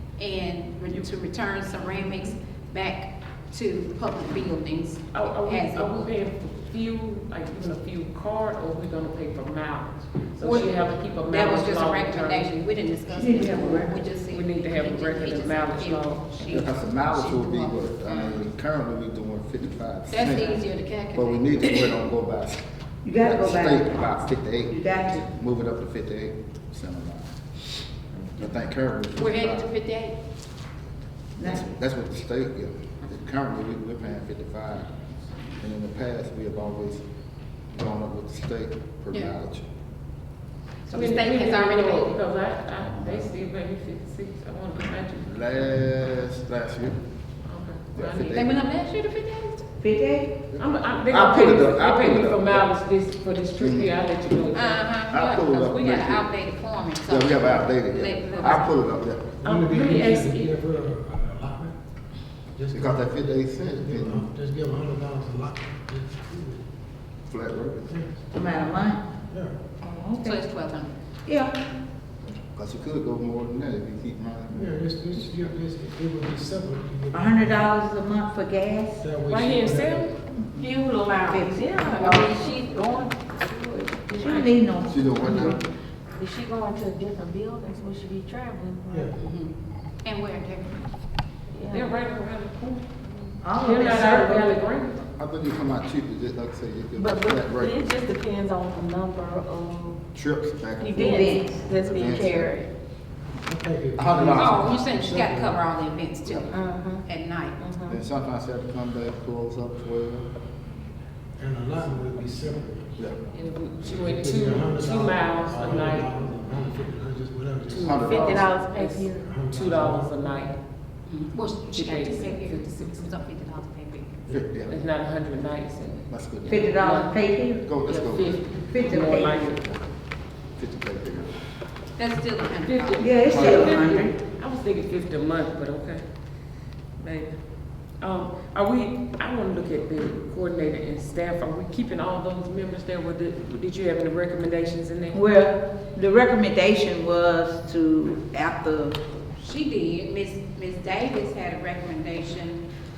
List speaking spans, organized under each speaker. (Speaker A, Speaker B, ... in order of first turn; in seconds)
Speaker A: 0.2-5.9, 10.4-18.4, 20.1-22.0, 29.1-30.1, 40.9-42.2, 48.3-49.7, 54.5-58.8, 70.2-70.9, 80.6-82.5, 89.2-90.7, 104.3-107.6, 121.1-124.2, 132.0-133.1, 149.4-152.6
Speaker B: 5.1-12.5, 14.3-16.7, 28.1-28.5, 40.9-45.6, 47.5-48.5, 50.6-54.8, 59.4-60.5, 79.3-80.1, 84.2-84.6, 91.7-92.9, 93.6-95.0, 113.3-116.2, 117.7-120.6, 121.7-123.1, 124.7-127.2, 127.8-129.7, 132.7-136.0, 137.0-137.3, 138.0-145.2
Speaker C: 13.1-13.9, 23.0-24.1, 24.7-25.3, 31.4-31.7, 49.8-50.4, 68.3-69.0, 69.8-70.4, 71.2-71.6, 77.1-79.0, 84.2-85.6, 93.4-94.5, 101.0-101.6, 126.5-127.7, 128.7-129.4, 133.0-134.1, 145.1-149.0
Speaker D: 16.5-20.6, 21.1-27.3, 28.4-29.7, 31.4-34.9, 35.6-37.0, 37.7-39.6, 45.2-47.0, 47.9-48.5, 50.5-52.7, 53.6-53.9, 55.1-56.3, 57.1-59.3, 62.7-64.3, 67.3-67.9, 72.5-74.7, 84.8-85.7, 95.2-97.8, 100.1-102.5, 104.0-104.8, 106.2-106.5, 107.9-110.3, 117.8-118.5, 124.3-124.8, 126.1-126.6, 127.6-128.4, 130.6-131.4, 133.2-133.9
Speaker E: 59.4-61.7, 62.5-66.6, 67.9-68.2, 69.3-69.6, 74.5-77.7, 79.0-80.1, 88.9-89.2, 103.5-105.6, 111.4-112.9, 113.9-118.0, 119.2-120.2
Speaker F: 80.6-84.6, 85.2-85.5, 86.2-89.1, 91.5-91.9, 97.0-100.0, 100.8-102.7, 106.5-107.0, 107.6-108.0, 118.0-119.3